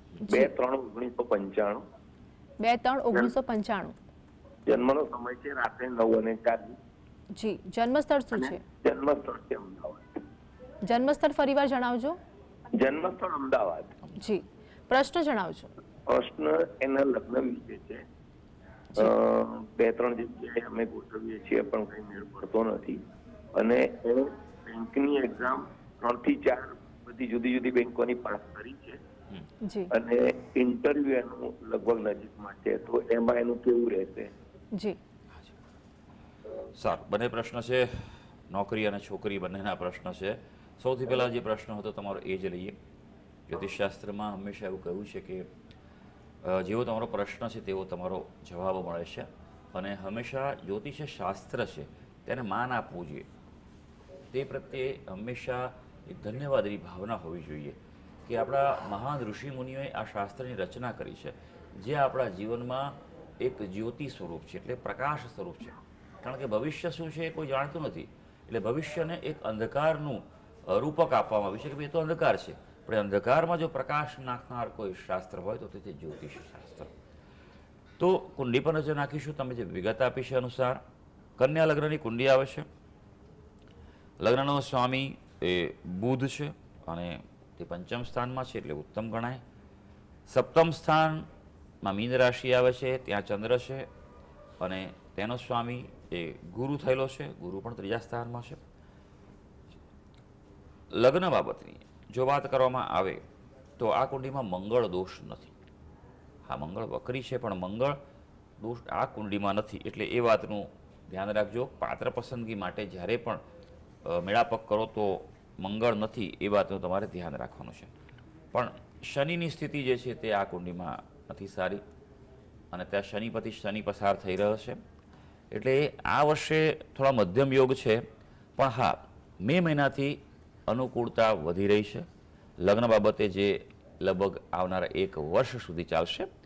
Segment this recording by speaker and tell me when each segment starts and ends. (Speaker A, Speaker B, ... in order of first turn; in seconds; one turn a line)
Speaker A: 0.2-1.8
Speaker B: 2.6-3.9
Speaker A: 4.7-6.8
Speaker B: 7.3-8.6
Speaker A: 8.3-10.2
Speaker B: 10.8-12.2
Speaker A: 12.7-13.9
Speaker B: 14.1-15.7
Speaker A: 16.1-18.0
Speaker A: 18.9-23.0
Speaker A: 23.5-29.0
Speaker B: 29.6-29.9
Speaker A: 29.9-34.3
Speaker C: 36.8-42.8
Speaker C: 43.5-45.5
Speaker C: 46.4-53.3
Speaker C: 54.3-76.9
Speaker C: 78.0-80.8
Speaker C: 81.4-82.7
Speaker C: 84.2-89.4
Speaker C: 90.3-91.2
Speaker C: 91.8-93.9
Speaker C: 94.6-98.6
Speaker C: 101.0-103.2
Speaker C: 103.8-105.5
Speaker C: 106.5-108.0
Speaker C: 108.6-113.4
Speaker C: 114.0-117.9
Speaker C: 118.5-121.8
Speaker C: 122.7-124.8
Speaker C: 125.5-128.0
Speaker C: 128.6-132.1
Speaker C: 132.6-136.3